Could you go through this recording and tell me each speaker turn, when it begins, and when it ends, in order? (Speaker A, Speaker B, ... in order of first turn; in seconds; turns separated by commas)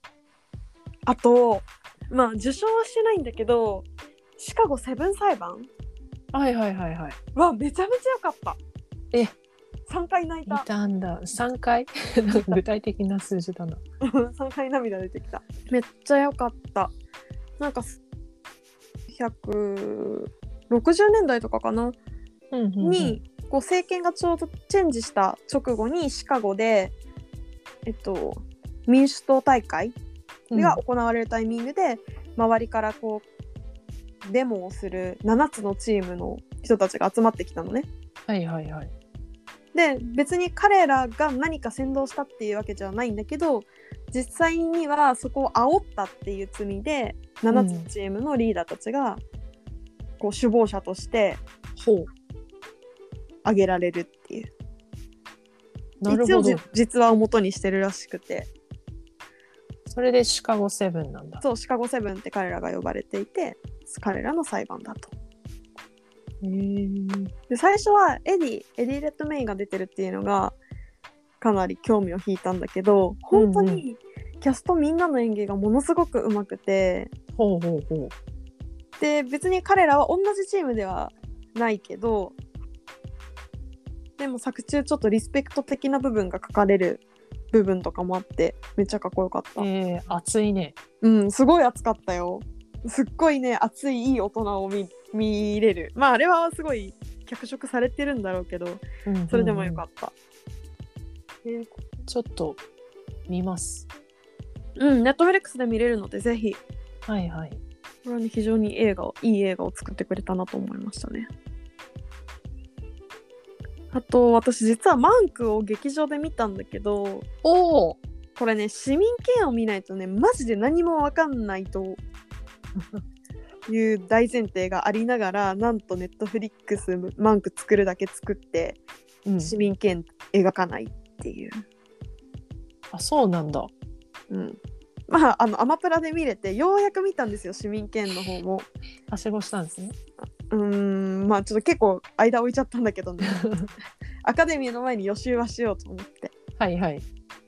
Speaker A: 1.1-3.9, Speaker A: 4.4-5.7, Speaker B: 6.3-7.2, Speaker A: 7.3-8.6, Speaker A: 9.9-10.7, Speaker B: 10.5-13.8, Speaker A: 12.3-12.6, Speaker A: 14.0-16.9, Speaker A: 17.6-18.0, Speaker A: 19.1-22.0, Speaker B: 22.5-23.2, Speaker A: 22.8-26.9, Speaker A: 27.9-29.9, Speaker B: 30.5-30.8, Speaker A: 30.5-33.2, Speaker A: 34.2-37.9, Speaker B: 38.3-38.9, Speaker A: 39.7-49.2, Speaker B: 47.5-47.9, Speaker A: 50.2-51.4, Speaker B: 51.8-52.1, Speaker A: 53.4-54.5, Speaker B: 56.0-56.6, Speaker A: 56.1-58.5, Speaker B: 59.9-61.4, Speaker A: 61.4-65.1, Speaker B: 66.4-67.3, Speaker A: 67.5-70.6, Speaker A: 71.4-77.1, Speaker B: 73.3-73.8, Speaker B: 77.3-78.1, Speaker A: 79.0-82.3, Speaker A: 84.2-87.0, Speaker A: 87.5-89.7, Speaker B: 89.6-90.8, Speaker A: 91.0-100.1, Speaker B: 99.0-99.8, Speaker A: 101.4-101.8, Speaker B: 102.1-102.6, Speaker B: 103.3-103.9, Speaker A: 104.8-106.6, Speaker B: 107.1-107.6, Speaker A: 108.0-111.3, Speaker A: 113.9-117.2, Speaker B: 117.4-118.0, Speaker A: 118.3-122.0, Speaker B: 122.8-123.0, Speaker A: 123.7-128.8, Speaker B: 129.2-129.5, Speaker A: 129.4-131.6, Speaker B: 132.9-133.7, Speaker A: 134.3-138.7, Speaker B: 139.1-139.9, Speaker A: 140.2-143.4, Speaker B: 143.2-143.7, Speaker A: 144.2-146.3, Speaker B: 146.6-147.0